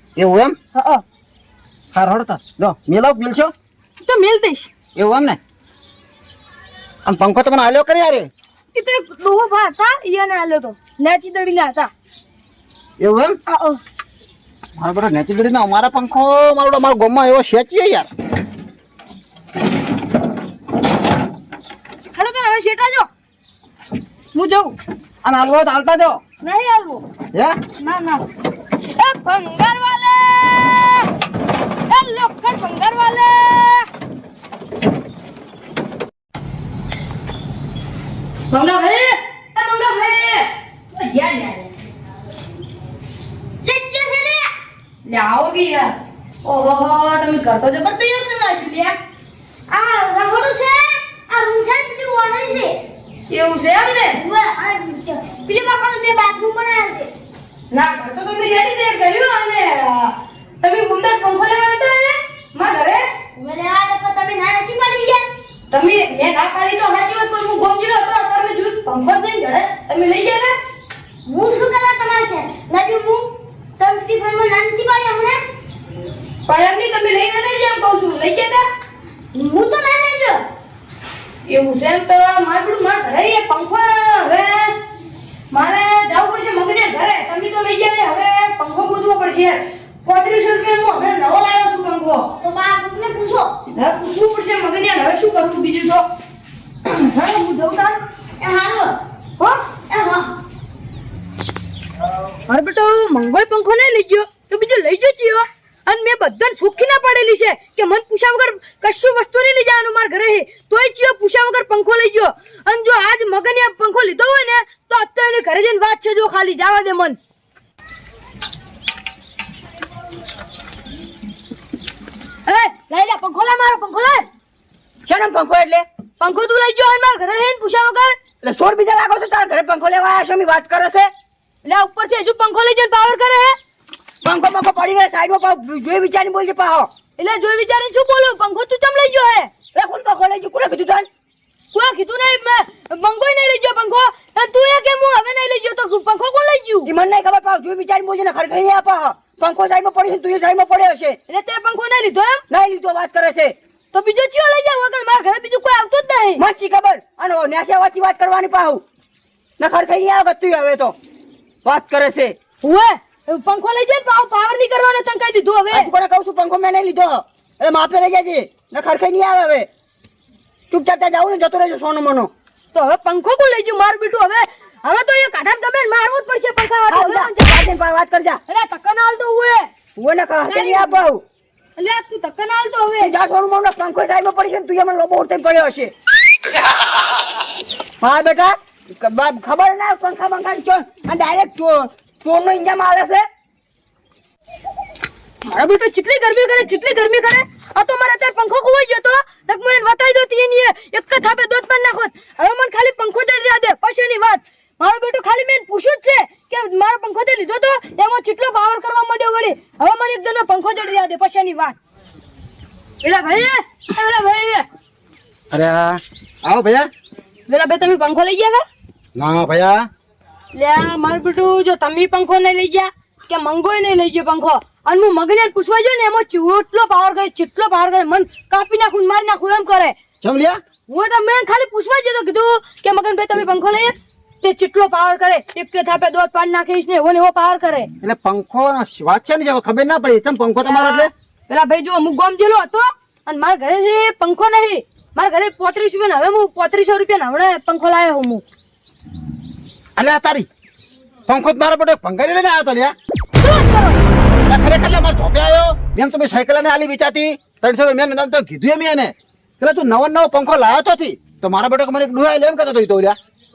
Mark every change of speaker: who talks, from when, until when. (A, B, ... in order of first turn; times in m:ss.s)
0:00.2-0:00.6 A
0:00.7-0:01.0 B
0:01.9-0:03.5 A
0:04.0-0:04.7 B
0:04.9-0:05.4 A
0:07.0-0:08.3 A
0:08.7-0:11.9 B
0:13.0-0:13.4 A
0:13.5-0:13.8 B
0:14.8-0:18.1 A
0:22.1-0:23.1 B
0:24.3-0:24.7 B
0:25.2-0:26.2 A
0:26.4-0:27.0 B
0:27.8-0:28.2 B
0:28.8-0:31.1 B
0:31.9-0:33.9 B
0:38.5-0:41.7 B
0:43.6-0:44.5 C
0:45.0-0:49.0 B
0:49.7-0:52.8 C
0:53.3-0:54.2 B
0:54.1-0:57.1 C
0:57.7-1:03.0 B
1:03.4-1:05.3 C
1:05.7-1:10.5 B
1:11.2-1:15.4 C
1:16.4-1:18.6 B
1:19.3-1:20.4 C
1:21.4-1:24.8 B
1:25.5-1:32.3 B
1:32.4-1:33.5 C
1:33.7-1:36.0 B
1:36.8-1:38.0 B
1:38.4-1:39.0 C
1:39.9-1:40.3 C
1:42.5-1:57.2 B
2:02.4-2:04.2 B
2:05.0-2:05.8 D
2:06.2-2:08.2 B
2:08.4-2:11.1 D
2:11.6-2:13.6 B
2:14.2-2:16.9 D
2:17.2-2:19.5 B
2:19.7-2:21.1 D
2:21.7-2:26.9 B
2:26.8-2:31.2 D
2:31.3-2:32.4 B
2:32.5-2:33.5 D
2:33.9-2:36.4 B
2:36.4-2:38.8 D
2:39.6-2:41.0 D
2:41.6-2:42.4 D
2:42.6-2:45.9 B
2:45.7-2:49.7 D
2:50.7-2:52.3 D
2:52.7-2:57.6 B
2:56.9-2:58.4 D
2:58.5-2:59.7 B
3:00.0-3:01.2 D
3:00.4-3:01.0 B
3:01.8-3:03.1 B
3:03.0-3:05.9 D
3:08.0-3:13.2 D
3:15.4-3:31.8 B
3:33.0-3:34.6 B
3:35.5-3:36.9 A
3:37.5-3:38.6 B
3:39.1-3:39.9 A
3:40.5-3:50.0 B
3:50.2-3:50.6 A
3:50.9-3:57.9 B
3:58.0-4:01.1 A
4:00.6-4:08.4 B
4:10.0-4:10.5 A
4:11.3-4:12.9 A
4:13.4-4:14.0 B
4:14.4-4:23.2 A